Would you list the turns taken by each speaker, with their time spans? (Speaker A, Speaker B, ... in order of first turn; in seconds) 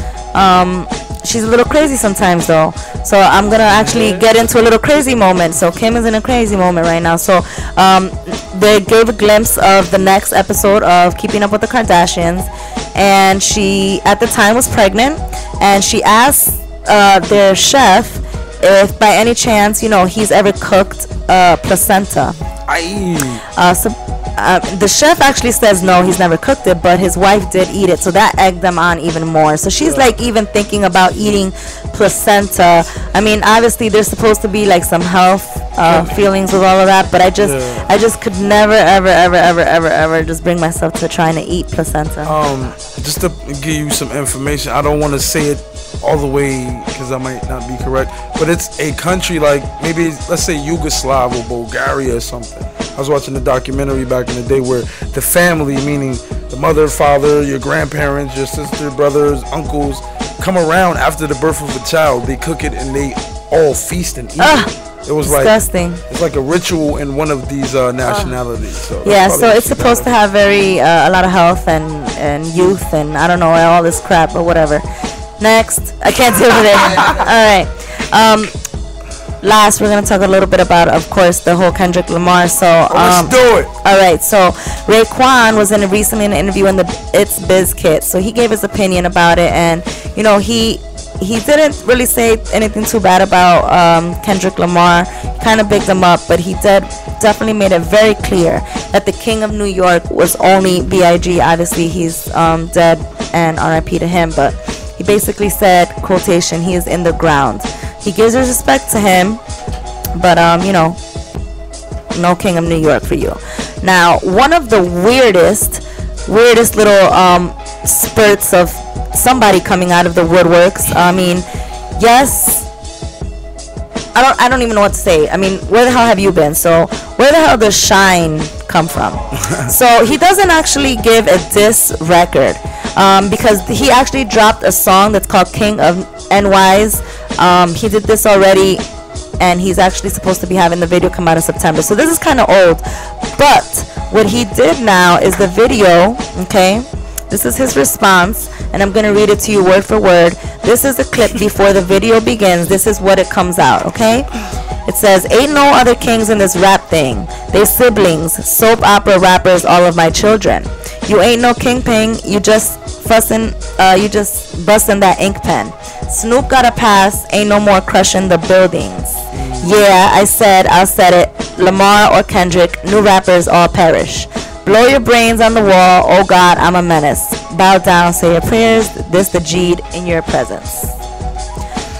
Speaker A: 0.3-22.4, 23.6-42.4, 64.4-66.0, 68.0-68.4, 69.0-74.8, 75.4-78.5, 79.4-109.4, 110.1-111.0, 112.1-122.7, 124.1-138.8, 139.4-154.3, 154.8-180.9
Speaker B: 3.7-4.3, 22.7-23.4, 29.8-30.1, 35.8-36.2, 37.4-37.9, 42.2-65.6, 66.1-70.2, 82.9-83.7, 129.3-129.7, 169.3-169.7